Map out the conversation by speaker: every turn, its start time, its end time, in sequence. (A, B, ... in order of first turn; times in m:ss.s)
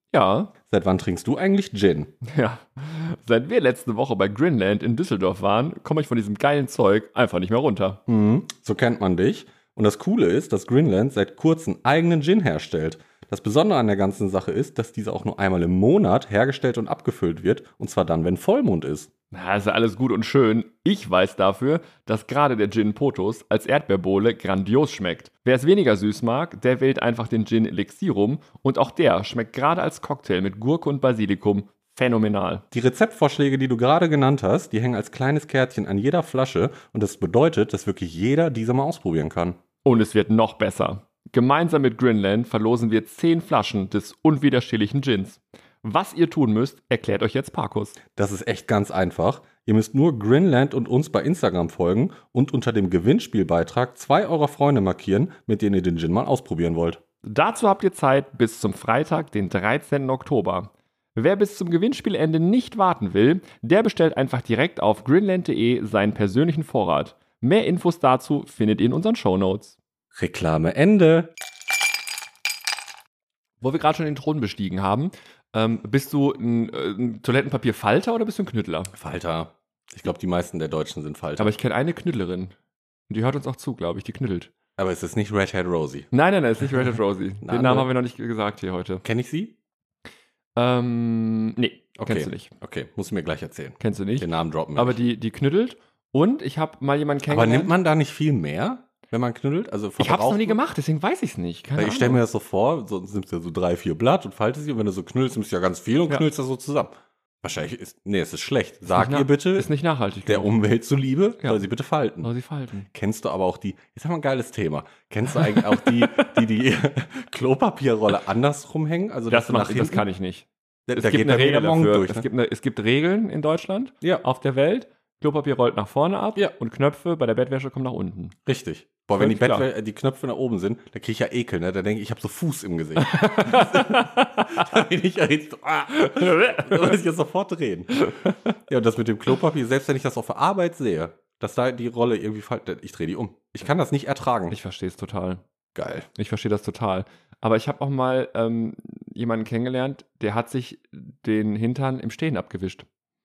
0:00.1-0:00.5 A
0:00.7-0:02.1 B
0:02.2-0:08.0 A
0:08.1-0:19.1 B
0:19.3-0:32.6 A
0:32.7-0:39.6 B
0:39.8-0:48.0 A
0:48.1-0:57.0 B
0:57.2-1:09.8 A
1:10.2-1:11.3 B
1:13.6-1:18.9 A
1:19.0-1:21.5 B
1:21.4-1:22.6 A
1:23.1-1:24.5 A
1:24.8-1:26.1 B
1:26.1-1:29.0 A
1:27.4-1:27.9 B
1:29.0-1:29.5 B
1:30.6-1:32.5 A
1:32.0-1:35.0 B
1:33.8-1:37.7 A
1:37.3-1:40.6 B
1:40.0-1:42.2 A
1:41.8-1:49.7 B
1:48.9-1:50.5 A
1:50.3-1:52.3 B
1:52.2-1:52.9 A
1:52.9-2:00.0 B
1:55.4-1:56.3 A
1:59.3-2:08.4 A
2:00.9-2:02.3 B
2:08.4-2:24.6 B
2:09.2-2:09.6 A
2:13.0-2:14.7 A
2:16.0-2:16.9 A
2:24.5-2:25.4 A
2:25.8-2:26.1 B
2:26.2-2:32.9 A